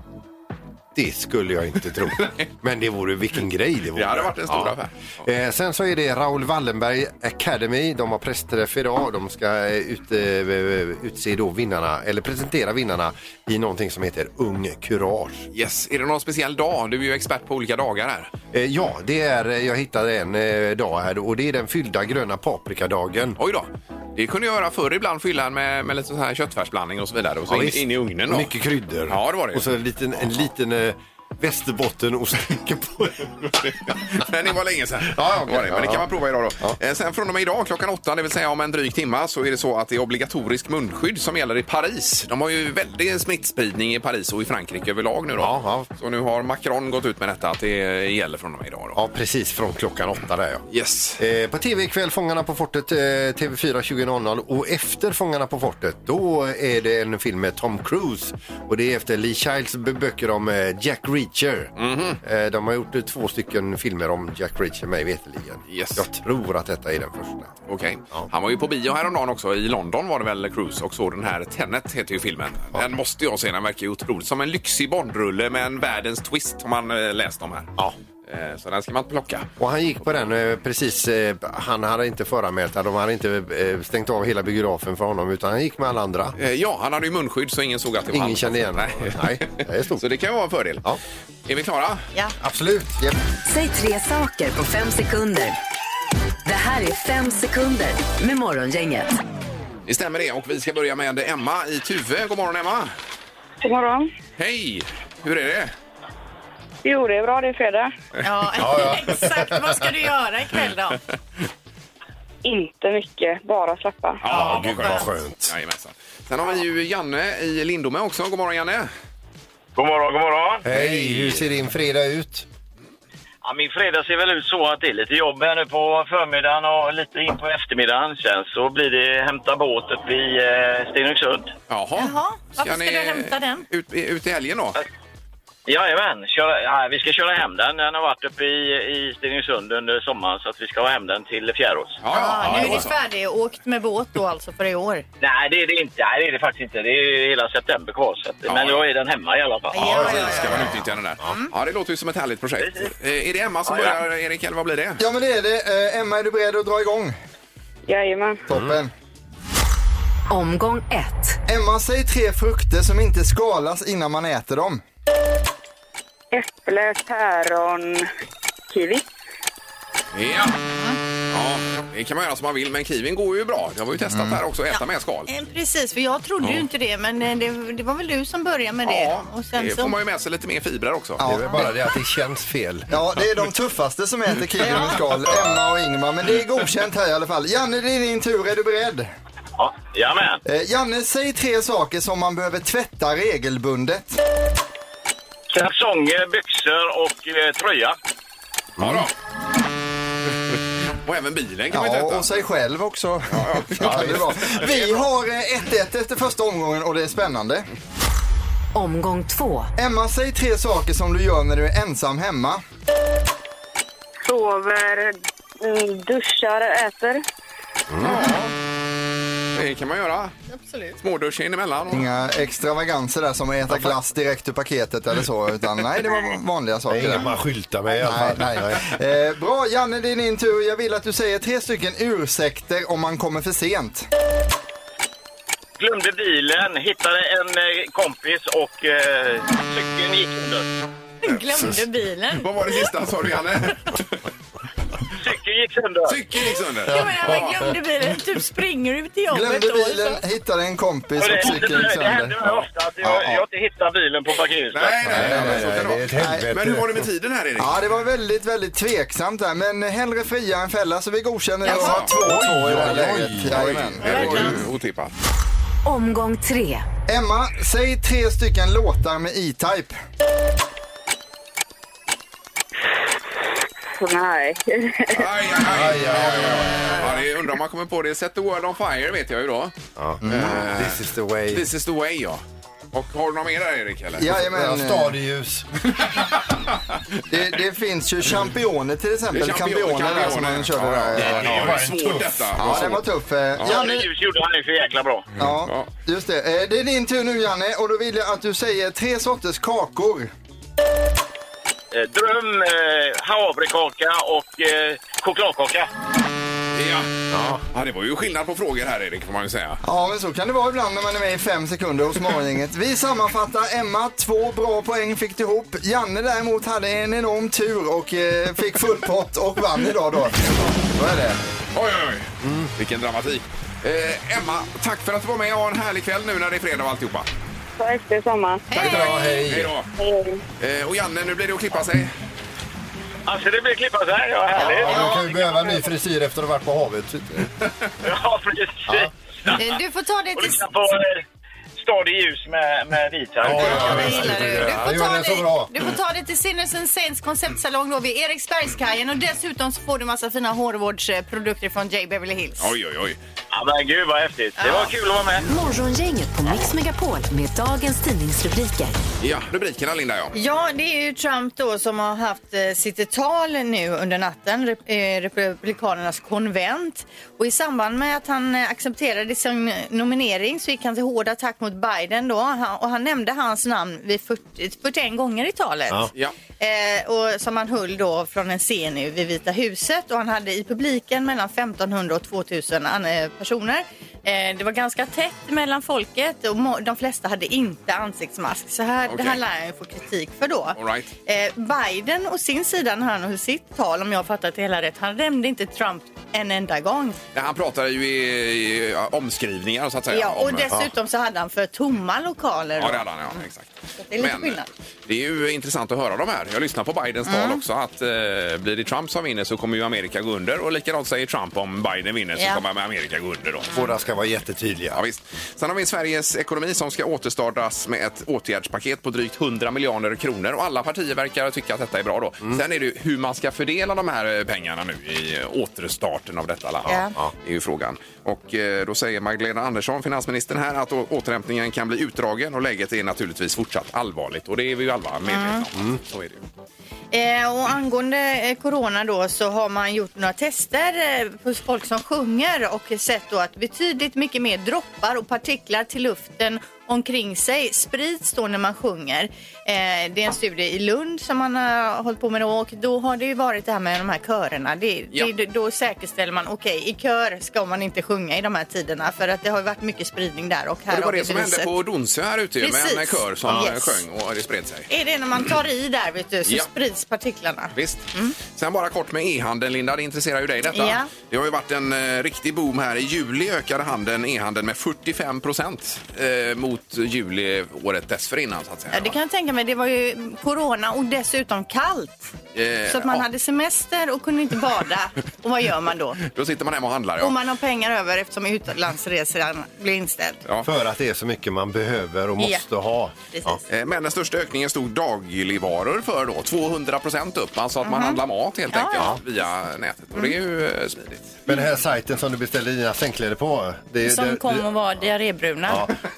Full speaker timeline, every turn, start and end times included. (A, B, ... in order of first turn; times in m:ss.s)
0:00.9-0:15.5 A
0:03.9-0:05.2 B
0:15.5-0:18.3 B
0:18.5-0:23.4 A
0:23.4-0:28.5 B
0:27.5-0:34.2 A
0:29.1-0:29.7 B
0:33.4-0:49.0 B
0:35.0-0:36.1 A
0:45.4-0:45.9 A
0:48.9-0:50.6 A
0:50.7-0:51.2 B
0:51.2-1:07.5 A
1:01.8-1:02.2 B
1:05.7-1:06.0 B
1:07.7-1:17.7 B
1:18.2-1:19.5 B
1:19.6-1:26.4 A
1:26.4-1:30.8 B
1:28.1-1:30.0 A
1:31.5-1:32.0 B
1:32.4-1:33.1 A
1:33.4-1:35.6 C
1:36.4-1:39.1 C
1:39.9-1:42.9 B
1:43.6-1:44.1 D
1:44.4-1:45.7 B
1:46.8-1:47.9 D
1:48.2-1:51.0 E
1:48.6-1:49.6 A
1:52.4-1:54.2 D
1:54.2-1:58.9 B
1:54.2-1:55.5 A
1:59.7-2:00.6 F
2:00.6-2:02.5 A
2:00.7-2:01.4 B
2:03.4-2:11.5 F
2:11.7-2:14.8 B
2:12.0-2:13.6 E
2:15.6-2:22.0 F
2:22.0-2:23.0 B
2:22.1-2:25.0 E
2:25.2-2:30.3 F
2:28.4-2:28.8 B
2:29.7-2:31.5 E
2:29.8-2:35.0 B
2:32.6-2:32.9 F
2:33.7-2:34.0 F
2:35.0-2:37.1 G
2:37.8-2:38.4 D
2:38.5-2:38.9 G
2:40.3-2:41.4 C
2:41.5-2:44.8 G
2:46.3-2:48.1 D
2:48.7-2:49.1 D
2:50.1-2:50.6 B
2:51.3-2:55.3 B
2:54.1-2:54.4 G
2:54.7-2:59.9 E
2:58.8-3:01.2 B
3:01.2-3:01.7 G
3:01.2-3:03.2 A
3:02.9-3:09.1 G
3:09.6-3:10.4 F
3:10.4-3:14.2 G
3:15.5-3:18.0 F
3:18.8-3:19.1 A
3:18.8-3:19.1 B
3:21.0-3:22.4 B
3:21.7-3:27.6 G
3:23.3-3:25.0 B
3:23.8-3:24.2 A
3:28.7-3:29.7 C
3:29.8-3:32.6 G
3:34.2-3:37.2 D
3:37.9-3:38.2 A
3:38.0-3:38.5 B
3:39.5-3:40.3 B
3:40.5-3:41.0 E
3:41.0-3:42.1 B
3:41.9-3:47.3 G
3:43.7-3:44.0 A
3:46.9-3:48.9 A
3:48.0-3:54.1 G
3:55.8-4:00.7 F
4:01.2-4:02.7 E
4:02.3-4:04.0 B
4:05.2-4:06.2 F
4:06.0-4:07.5 B
4:06.8-4:10.2 E
4:06.9-4:07.5 A
4:09.3-4:13.2 G
4:11.2-4:15.2 F
4:13.0-4:13.4 A
4:14.7-4:17.8 B
4:15.0-4:17.0 A
4:15.1-4:16.5 G
4:17.6-4:24.5 G
4:21.6-4:22.0 E
4:21.7-4:22.1 B
4:22.0-4:24.6 A
4:23.5-4:25.1 B
4:24.0-4:24.5 E
4:25.8-4:26.8 C
4:27.1-4:30.0 G
4:34.0-4:35.3 D
4:35.1-4:39.7 B
4:35.6-4:37.2 A
4:40.0-4:41.6 A
4:40.2-4:40.7 G
4:40.3-4:44.3 B
4:44.2-4:45.1 G
4:44.4-4:45.7 A
4:46.0-4:47.0 B
4:47.3-4:51.8 G
4:49.3-4:53.0 B
4:51.1-4:53.0 A
4:52.6-4:54.1 G
4:53.6-4:53.9 B
4:53.6-4:55.3 F
4:55.4-5:00.3 G
4:55.6-4:55.9 B
5:01.9-5:05.9 F
5:06.7-5:07.1 B
5:07.3-5:07.6 A
5:07.7-5:09.8 B
5:09.8-5:21.4 G
5:21.7-5:27.3 B
5:22.4-5:22.7 A
5:27.8-5:28.6 D
5:28.7-5:29.4 E
5:28.7-5:29.7 A
5:28.8-5:29.9 B
5:30.0-5:30.4 D
5:30.6-5:32.1 B
5:33.2-5:35.6 F
5:34.6-5:35.2 E
5:34.7-5:37.5 A
5:38.0-5:39.6 F
5:39.5-5:40.7 E
5:40.4-5:41.2 F
5:41.8-5:44.3 F
5:43.4-5:45.7 A
5:43.5-5:52.7 E
5:52.6-5:53.2 B
5:53.5-5:55.5 F
5:54.6-5:54.9 E
5:55.5-5:59.0 C
5:59.2-6:00.3 B
6:00.3-6:37.2 E
6:29.1-6:29.4 B
6:30.8-6:31.1 B
6:37.3-6:40.7 B
6:40.1-6:43.4 E
6:42.8-6:53.7 B
6:44.0-6:44.7 E
6:47.2-6:47.6 E
6:52.4-6:52.6 E
6:53.7-6:55.0 A
6:54.9-7:16.4 B
7:06.8-7:07.2 E
7:15.3-7:15.6 E
7:17.1-7:41.7 E
7:40.9-7:44.9 B
7:42.6-7:44.0 E
7:44.9-7:48.4 E
7:47.7-7:59.1 B
7:50.7-7:51.1 E
7:58.9-8:02.3 E
8:02.5-8:03.2 B
8:02.9-8:06.2 E
8:06.2-8:07.4 B
8:07.2-8:10.4 E
8:10.6-8:13.6 A
8:12.4-8:12.6 E
8:13.3-8:13.6 E
8:13.7-8:21.4 B
8:17.8-8:18.2 E
8:18.7-8:19.2 E
8:21.5-8:24.7 A
8:24.0-8:25.9 E
8:25.6-8:26.0 A